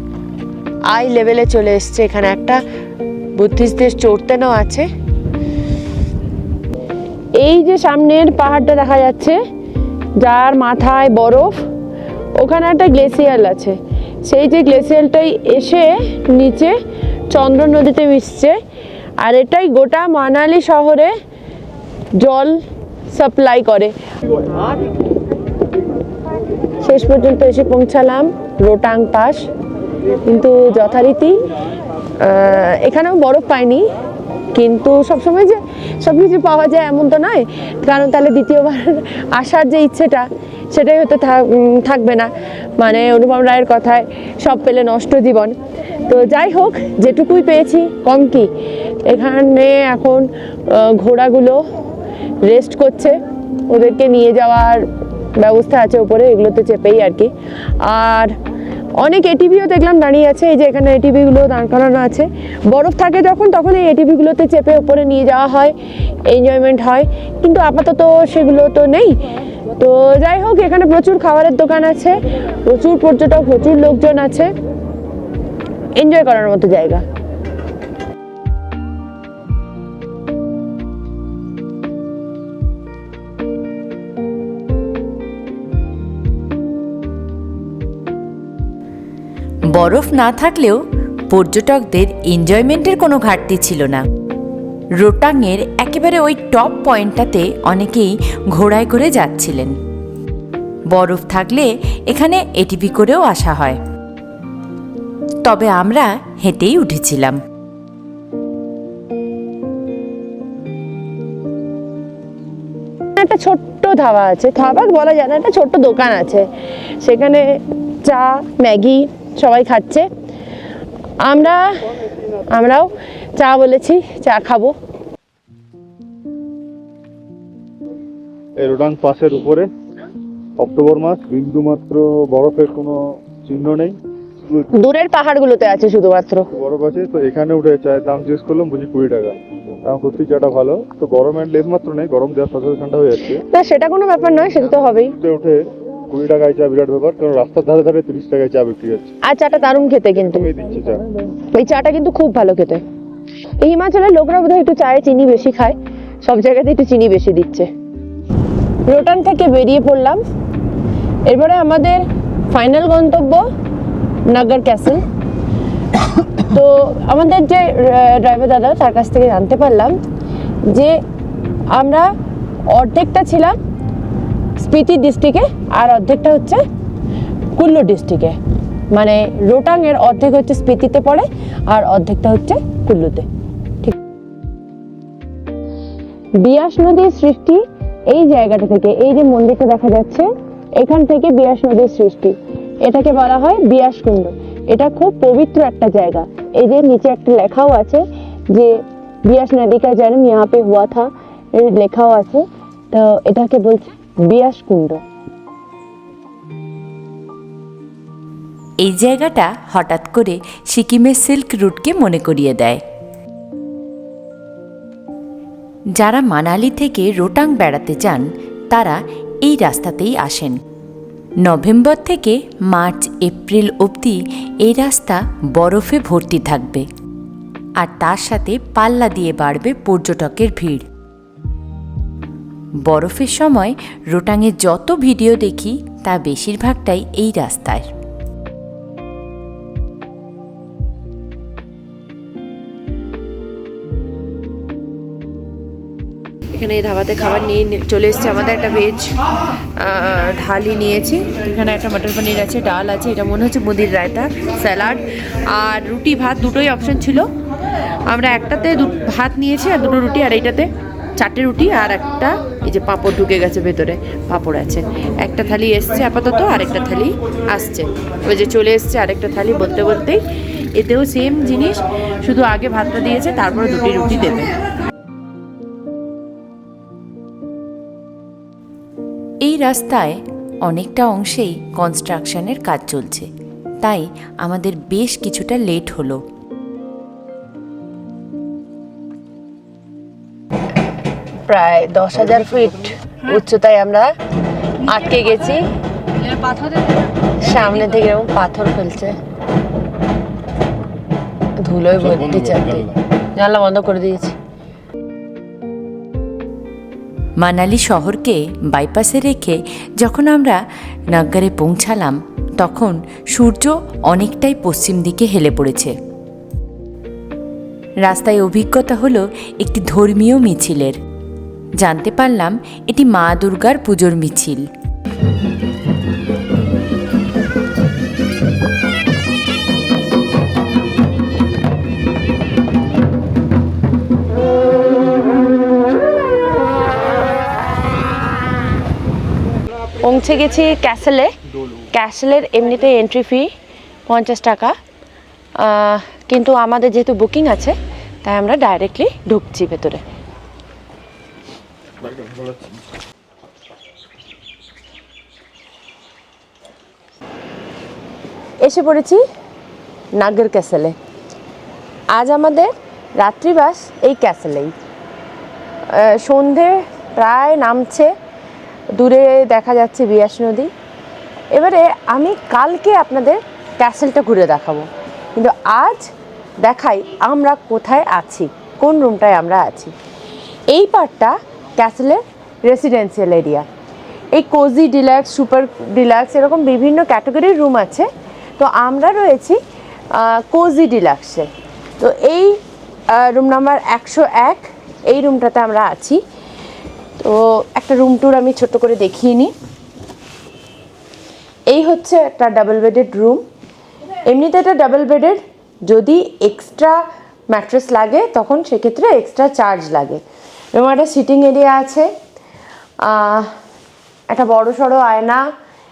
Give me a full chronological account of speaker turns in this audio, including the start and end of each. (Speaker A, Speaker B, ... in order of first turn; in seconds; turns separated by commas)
Speaker A: 0.9-2.6, Speaker A: 3.3-4.9, Speaker A: 7.4-9.4, Speaker A: 10.2-11.6, Speaker A: 12.4-16.8, Speaker A: 17.3-18.6, Speaker A: 19.2-21.1, Speaker A: 22.1-22.6, Speaker A: 23.1-23.9, Speaker A: 26.8-29.4, Speaker A: 30.2-31.4, Speaker A: 32.2-33.9, Speaker A: 34.5-48.5, Speaker A: 49.0-51.6, Speaker A: 52.4-54.9, Speaker A: 55.4-58.3, Speaker A: 59.0-65.7, Speaker A: 66.2-69.2, Speaker A: 69.8-74.5, Speaker A: 76.0-77.0, Speaker B: 89.7-94.0, Speaker B: 95.0-99.8, Speaker B: 100.9-103.8, Speaker B: 105.4-107.4, Speaker A: 113.2-116.5, Speaker A: 117.0-120.1, Speaker A: 121.2-121.8, Speaker A: 122.5-124.7, Speaker C: 128.6-129.7, Speaker C: 130.6-134.7, Speaker A: 134.7-136.5, Speaker C: 136.5-143.4, Speaker A: 143.5-145.2, Speaker C: 145.2-149.1, Speaker A: 149.2-150.5, Speaker C: 150.2-151.0, Speaker A: 151.5-152.8, Speaker A: 153.6-157.7, Speaker A: 158.9-160.2, Speaker A: 161.3-163.5, Speaker A: 164.3-165.0, Speaker A: 166.4-170.0, Speaker A: 170.7-171.0, Speaker A: 171.7-172.1, Speaker A: 172.7-173.6, Speaker A: 174.6-176.6, Speaker A: 177.5-178.4, Speaker A: 178.9-183.3, Speaker A: 186.4-205.0, Speaker B: 208.8-212.8, Speaker B: 215.9-220.6, Speaker B: 221.4-226.8, Speaker B: 227.8-230.8, Speaker B: 232.8-237.8, Speaker A: 246.5-249.1, Speaker A: 249.8-257.3, Speaker A: 258.1-270.2, Speaker A: 270.7-274.5, Speaker B: 279.4-283.3, Speaker B: 283.8-286.2, Speaker A: 291.5-294.1, Speaker A: 294.8-295.6, Speaker A: 297.2-299.1, Speaker A: 301.6-304.4, Speaker B: 307.4-310.6, Speaker B: 311.1-315.9, Speaker B: 318.0-321.0, Speaker B: 321.8-324.7, Speaker A: 340.0-341.3, Speaker A: 341.9-343.5, Speaker A: 344.1-344.7, Speaker A: 345.6-350.0, Speaker A: 358.6-359.2, Speaker A: 360.1-360.9, Speaker A: 362.1-364.7, Speaker A: 365.9-368.1, Speaker A: 368.9-370.7, Speaker A: 371.5-376.1, Speaker A: 376.6-379.9, Speaker A: 380.7-383.6, Speaker A: 384.3-389.6, Speaker A: 390.1-392.6, Speaker A: 393.1-396.2, Speaker A: 397.2-399.5, Speaker A: 401.7-403.4, Speaker A: 404.2-410.2, Speaker A: 410.7-412.1, Speaker A: 413.0-413.5, Speaker A: 414.3-415.4